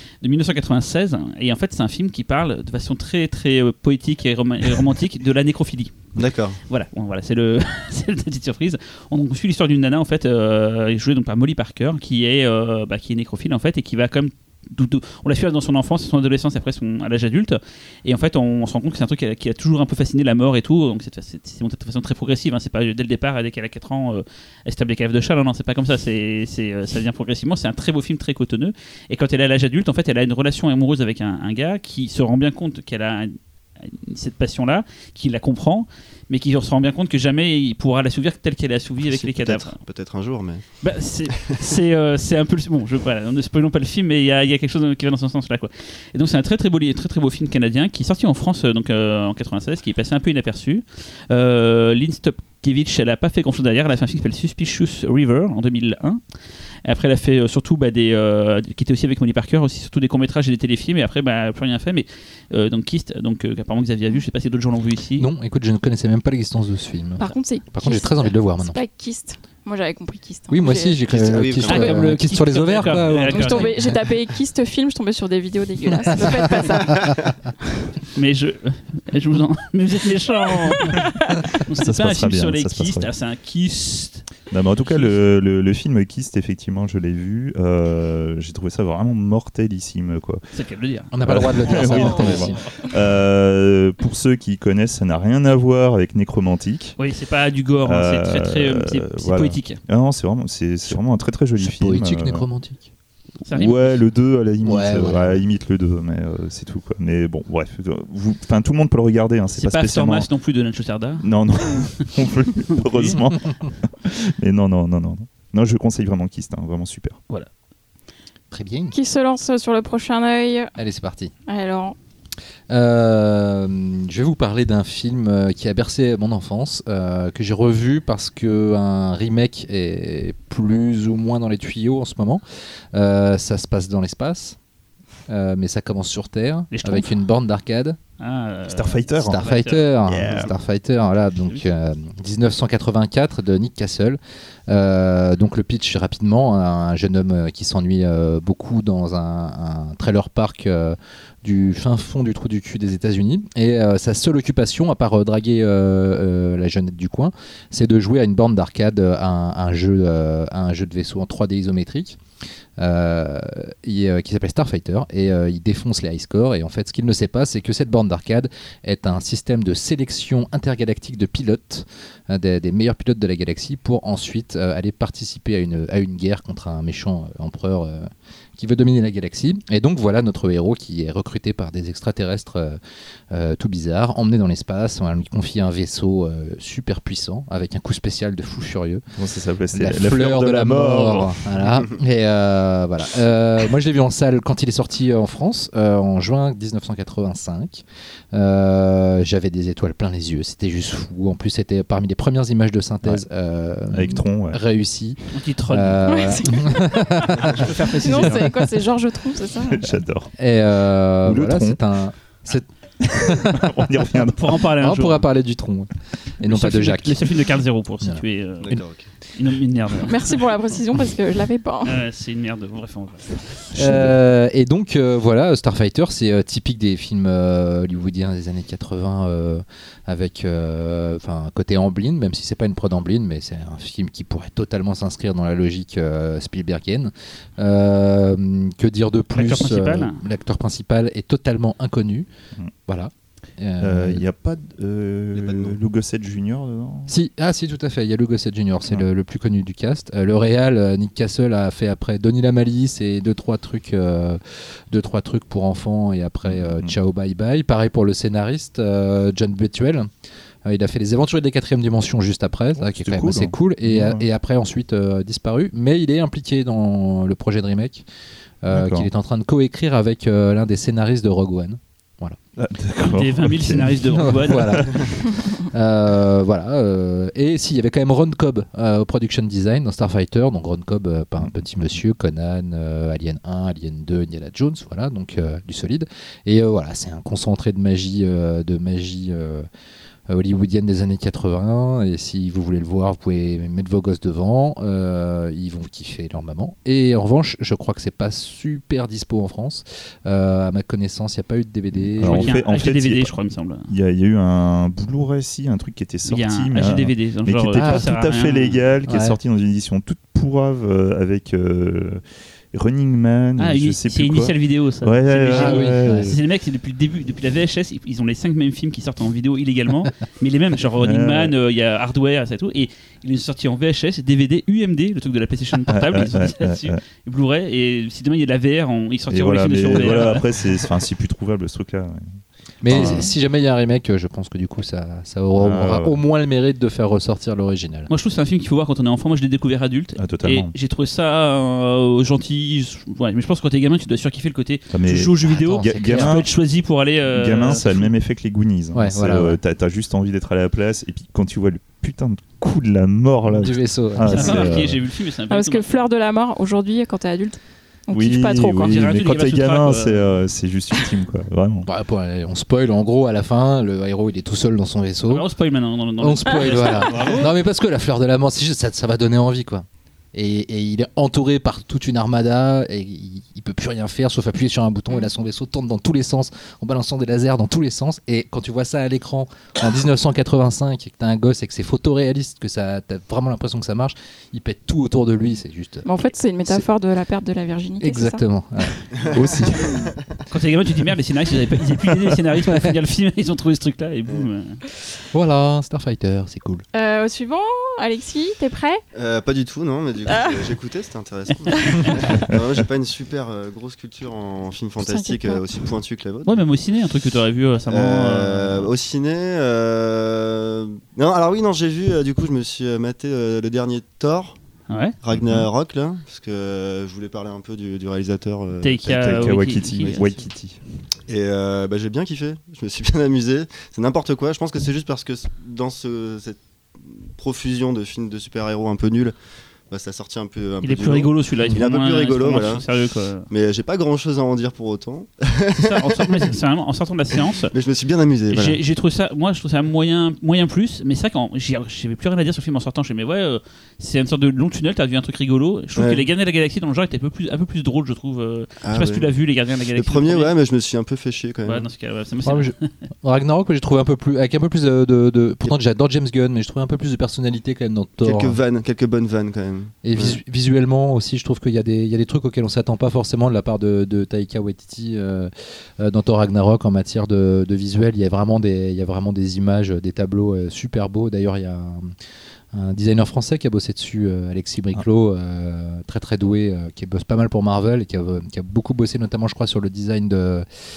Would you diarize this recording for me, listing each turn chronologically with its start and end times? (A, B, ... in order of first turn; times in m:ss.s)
0:00.2-0:06.0 A
0:06.2-0:06.6 B
0:06.7-0:39.8 A
0:39.0-0:40.6 B
0:40.8-0:56.2 A
0:56.8-1:05.3 A
1:05.2-1:08.8 C
1:07.2-1:11.0 D
1:10.5-1:14.0 C
1:11.0-1:12.0 B
1:11.6-1:13.7 A
1:13.3-1:17.3 D
1:16.7-1:17.3 B
1:18.1-1:21.0 A
1:20.7-1:21.3 D
1:21.5-1:24.3 A
1:21.7-1:23.1 E
1:24.5-1:30.4 E
1:24.8-1:25.2 A
1:30.5-1:32.6 A
1:31.1-1:32.6 C
1:31.2-1:37.0 E
1:37.0-1:39.8 A
1:37.8-1:42.4 E
1:41.6-1:42.9 C
1:43.4-1:44.0 A
1:43.5-1:50.3 E
1:44.6-1:45.4 C
1:49.5-1:51.3 A
1:51.2-1:57.2 E
1:52.6-1:53.2 A
1:58.5-1:58.9 C
1:58.9-2:00.7 D
2:00.8-2:01.3 C
2:01.5-2:02.0 D
2:02.7-2:14.6 C
2:15.3-2:18.0 C
2:16.7-2:17.2 A
2:18.2-2:19.9 A
2:18.7-2:19.4 E
2:19.2-2:42.2 C
2:20.1-2:20.5 E
2:42.8-3:02.8 C
3:03.3-3:09.0 C
3:09.2-3:11.4 E
3:09.7-3:28.7 C
3:23.9-3:24.6 E
3:25.3-3:26.1 A
3:26.0-3:27.3 D
3:27.4-3:28.5 A
3:27.9-3:29.8 D
3:29.6-3:30.3 E
3:29.9-3:34.2 C
3:31.2-3:31.8 E
3:33.0-3:34.6 E
3:34.3-3:35.2 A
3:34.8-3:37.3 C
3:36.4-3:38.8 A
3:38.0-3:38.8 C
3:38.6-3:39.1 B
3:39.3-3:40.4 A
3:40.0-3:42.0 D
3:41.8-3:43.8 A
3:43.7-4:02.3 C
3:43.8-3:44.1 E
3:59.3-4:00.2 A
4:02.9-4:04.2 C
4:03.8-4:07.1 E
4:05.3-4:05.8 B
4:07.1-4:20.1 C
4:16.4-4:16.9 E
4:20.6-4:28.0 C
4:22.8-4:24.2 E
4:28.6-4:32.4 C
4:28.7-4:29.1 E
4:32.6-4:35.1 E
4:33.0-4:34.9 A
4:34.1-4:49.7 C
4:50.3-5:02.6 C
5:01.9-5:03.3 E
5:02.2-5:03.9 A
5:03.9-5:16.4 E
5:06.3-5:08.8 A
5:07.8-5:08.1 C
5:09.0-5:09.4 C
5:13.6-5:30.4 A
5:15.5-5:16.3 C
5:21.0-5:21.5 E
5:25.9-5:27.0 E
5:29.3-5:33.3 E
5:32.8-5:38.1 C
5:35.6-5:36.2 E
5:38.1-5:48.1 A
5:40.2-5:40.7 E
5:44.9-5:46.5 E
5:45.4-5:46.4 C
5:47.3-5:55.0 E
5:48.9-5:49.6 C
5:53.5-5:54.9 C
5:54.2-5:56.0 A
5:55.5-5:59.0 D
5:58.1-6:01.9 E
5:58.8-6:00.3 A
6:01.8-6:05.4 C
6:05.3-6:07.5 A
6:06.2-6:26.8 C
6:26.0-6:28.4 D
6:28.0-6:30.0 C
6:29.1-6:30.2 B
6:30.5-6:34.8 A
6:35.3-6:36.8 C
6:36.9-6:39.0 D
6:39.1-6:46.6 B
6:40.3-6:40.7 D
6:41.7-6:42.4 D
6:45.0-6:45.6 D
6:46.4-6:48.9 A
6:47.9-6:54.6 B
6:54.9-6:55.2 A
6:55.2-7:00.4 B
6:55.4-6:55.6 E
6:58.8-7:00.2 A
6:59.1-7:00.8 E
7:01.3-7:09.3 B
7:09.9-7:12.8 B
7:10.8-7:13.5 A
7:13.5-7:16.6 B
7:15.7-7:17.7 A
7:17.7-7:18.8 B
7:18.5-7:30.5 A
7:26.0-7:26.3 B
7:28.8-7:29.3 B
7:29.9-7:31.9 B
7:31.6-7:32.9 A
7:32.4-7:38.6 C
7:38.2-7:40.4 B
7:40.0-7:52.1 C
7:52.7-8:00.6 C